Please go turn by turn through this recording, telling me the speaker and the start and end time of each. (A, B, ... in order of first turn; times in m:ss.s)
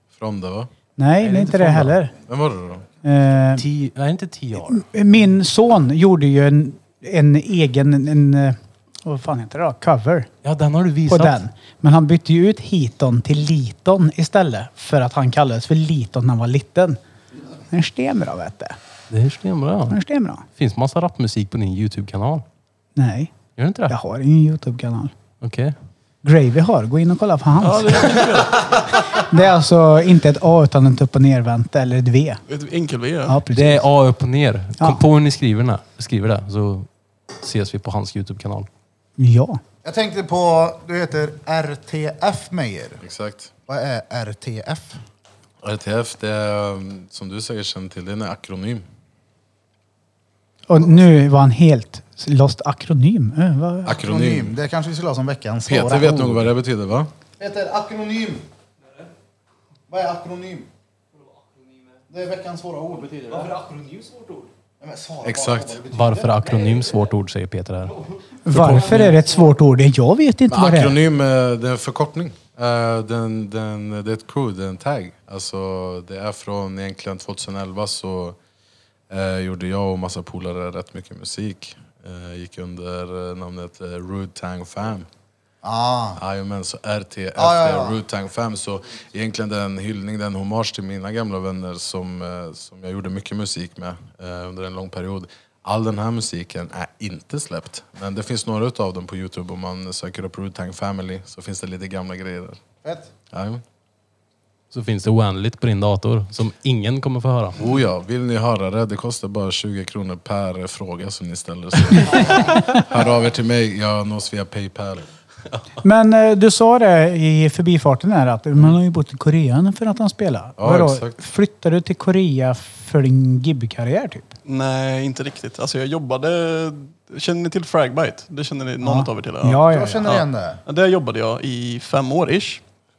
0:00.2-0:00.7 A
0:01.0-0:02.1 B
0:01.2-0:02.0 C
0:02.3-0:02.8 A
0:03.0-0:03.6 B
0:03.6-0:04.8 C
0:04.6-0:10.3 B
0:10.4-0:11.4 C
0:11.1-0:17.0 B
0:17.7-0:18.8 B
0:19.1-0:20.0 C
0:19.9-0:20.4 B
0:20.6-0:22.4 C
0:23.0-0:23.3 B
0:23.6-0:24.0 C
0:23.9-0:25.1 B
0:25.4-0:25.7 C
0:26.2-0:28.2 B
0:27.6-0:28.7 D
0:29.1-0:32.4 B
0:32.5-0:33.4 D
0:33.3-0:33.8 B
0:33.5-0:36.9 C
0:37.4-0:38.7 C
0:39.2-0:39.6 B
0:39.8-0:43.0 E
0:43.0-0:43.5 A
0:43.7-0:45.0 E
0:45.6-0:48.8 A
0:50.7-0:54.0 B
0:53.9-0:54.5 A
0:54.0-0:56.5 E
0:55.7-0:57.1 A
0:57.4-0:58.4 E
0:59.9-1:00.7 E
1:02.1-1:03.6 E
1:04.8-1:06.4 E
1:05.2-1:05.8 A
1:05.9-1:09.2 C
1:08.4-1:11.0 B
1:10.5-1:18.4 A
1:19.1-1:25.1 A
1:25.6-1:26.2 E
1:26.2-1:42.6 A
1:27.4-1:28.0 E
1:42.8-1:43.1 E
1:43.3-1:43.6 A
1:44.7-1:47.6 C
1:47.6-1:55.0 A
1:55.8-2:04.3 B
2:00.6-2:01.2 A
2:04.4-2:12.6 D
2:08.8-2:10.1 B
2:09.7-2:10.6 E